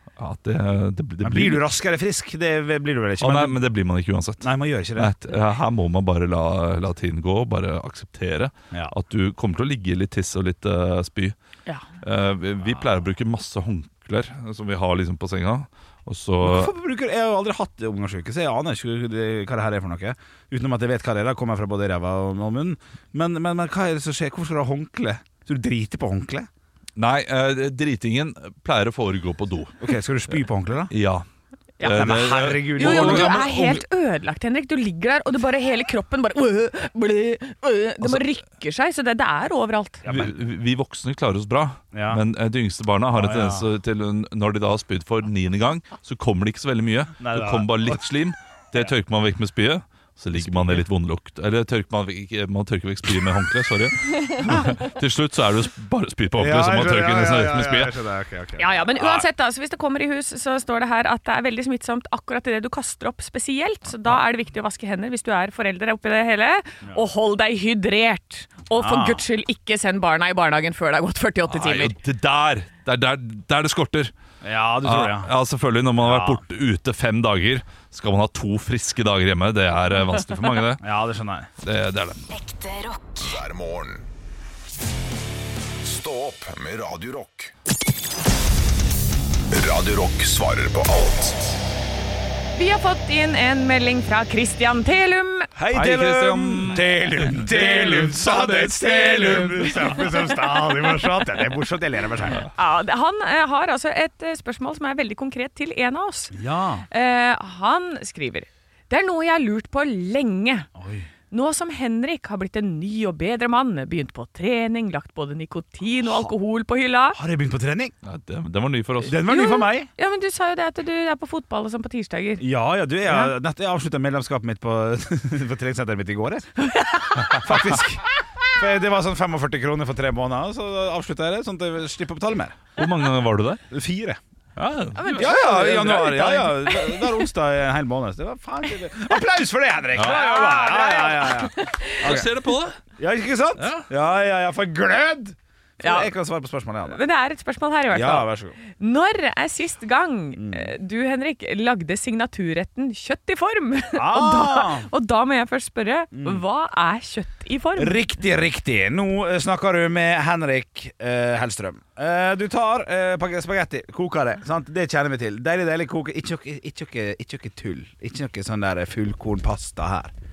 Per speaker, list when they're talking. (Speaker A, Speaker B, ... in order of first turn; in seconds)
Speaker A: 0.2-1.6, 3.2-11.3, 12.0-16.7, 27.0-29.8, 30.9-31.3, 31.8-33.8, 40.1-57.9, 59.0-59.2, 71.5-74.1, 74.8-80.9, 81.6-82.3, 95.7-99.8, 118.0-119.3, 132.8-133.6, 134.6-135.4, 139.9-140.3, 142.0-142.8, 143.6-143.9
Speaker B: 1.2-3.6, 4.4-5.2, 16.4-26.5, 29.8-30.9, 31.9-33.4, 40.0-40.3, 41.9-42.2, 43.1-43.7, 47.2-48.0, 50.4-50.8, 56.4-58.7, 68.8-69.2, 74.4-75.3, 76.0-76.4, 80.8-81.5, 95.5-102.5, 106.3-106.9, 110.8-111.1, 117.1-117.9, 119.0-119.9, 122.4-126.5, 127.3-132.6, 133.7-134.2, 135.2-142.3, 143.0-147.0, 147.9-148.6, 150.4-150.7, 153.9-154.9, 156.1-156.4, 157.8-170.1
Speaker C: 31.8-32.1, 32.8-40.0, 58.6-72.0, 92.5-95.5, 100.5-100.9, 102.5-106.4, 106.9-110.7, 111.3-117.2, 119.2-122.5, 123.0-123.3, 126.6-128.0, 134.9-137.2, 140.0-142.3, 145.8-146.1, 146.9-158.0
Speaker D: 82.6-84.1, 85.8-87.5, 89.5-91.6